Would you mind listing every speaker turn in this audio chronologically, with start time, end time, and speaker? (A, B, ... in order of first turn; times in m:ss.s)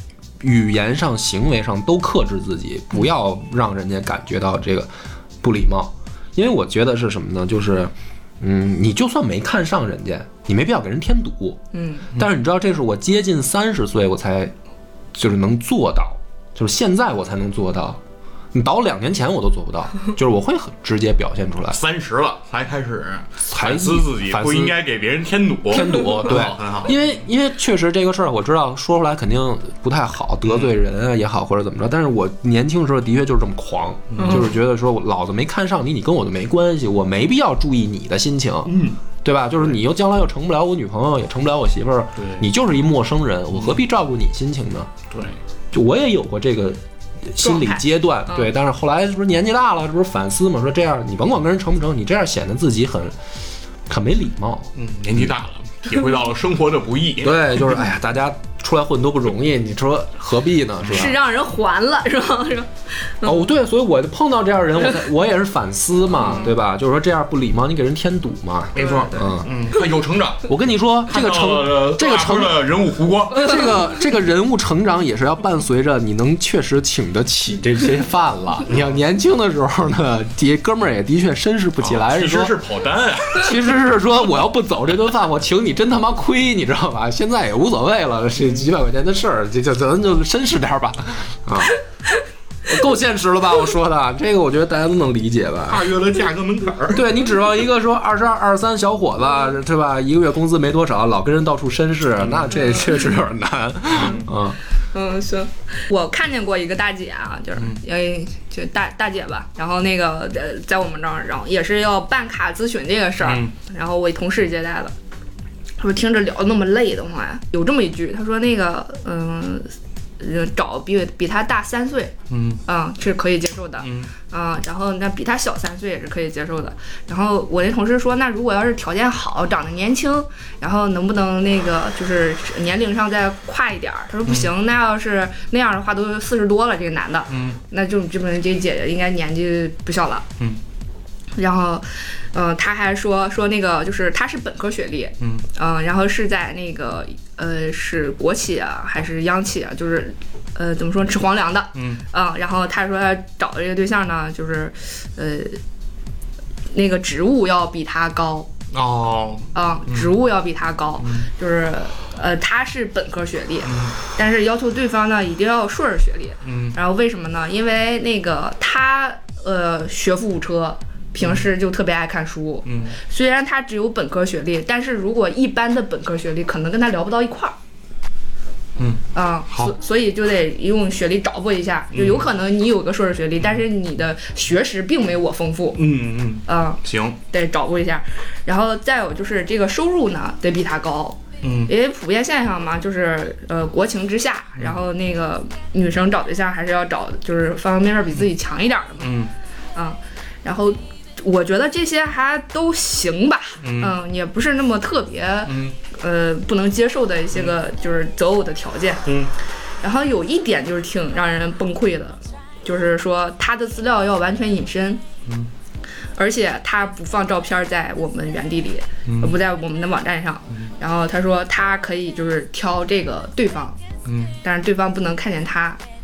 0:00.4-0:11.6 A
0:11.7-0:12.1 B
0:12.1-0:14.5 A
0:15.1-0:18.0 A
0:18.5-0:21.8 A
0:21.7-0:27.1 C
0:23.5-0:24.8 A
0:25.7-0:44.9 A
0:30.4-0:30.7 C
0:34.1-0:34.5 C
0:34.2-0:34.6 B
0:38.6-0:39.0 C
0:42.2-0:42.4 C
0:43.5-0:43.8 C
0:45.1-0:45.4 C
0:45.7-0:53.2 A
0:47.4-0:48.5 B
0:53.9-0:54.7 A
0:54.7-0:57.6 C
0:57.2-1:01.2 A
1:00.9-1:03.5 B
1:03.2-1:09.5 A
1:06.2-1:06.5 B
1:08.7-1:10.5 C
1:08.8-1:09.3 B
1:10.5-1:12.6 A
1:11.1-1:13.7 C
1:13.3-1:22.5 A
1:18.7-1:19.0 C
1:21.8-1:23.6 C
1:23.3-1:31.8 A
1:32.6-1:35.9 A
1:35.7-1:37.1 C
1:36.9-1:44.6 A
1:42.2-1:42.5 C
1:42.5-1:43.0 B
1:43.9-1:44.3 C
1:44.9-1:54.9 B
1:53.2-1:53.5 C
1:55.8-2:02.1 B
2:02.3-2:02.6 C
2:02.7-2:20.2 B
2:03.8-2:04.1 C
2:17.3-2:17.6 C
2:21.4-2:35.6 B
2:25.2-2:25.4 C
2:31.7-2:32.0 C
2:36.7-2:38.5 B
2:38.7-2:40.1 C
2:39.5-2:57.6 B
2:41.0-2:41.3 C
2:43.6-2:44.0 C
2:46.4-2:46.8 C
2:51.2-2:51.5 C
2:52.6-2:53.0 C
2:58.8-2:59.8 C
2:59.1-3:05.8 B
3:01.9-3:02.3 C
3:05.7-3:07.2 C
3:06.5-3:19.2 B
3:11.4-3:11.7 C
3:19.0-3:19.3 C
3:19.7-3:29.0 B
3:23.6-3:24.0 C
3:25.4-3:25.7 C
3:29.0-3:29.3 C
3:29.8-3:35.0 B
3:36.2-3:43.8 B
3:39.0-3:39.4 C
3:44.0-3:44.4 C
3:44.4-3:45.8 B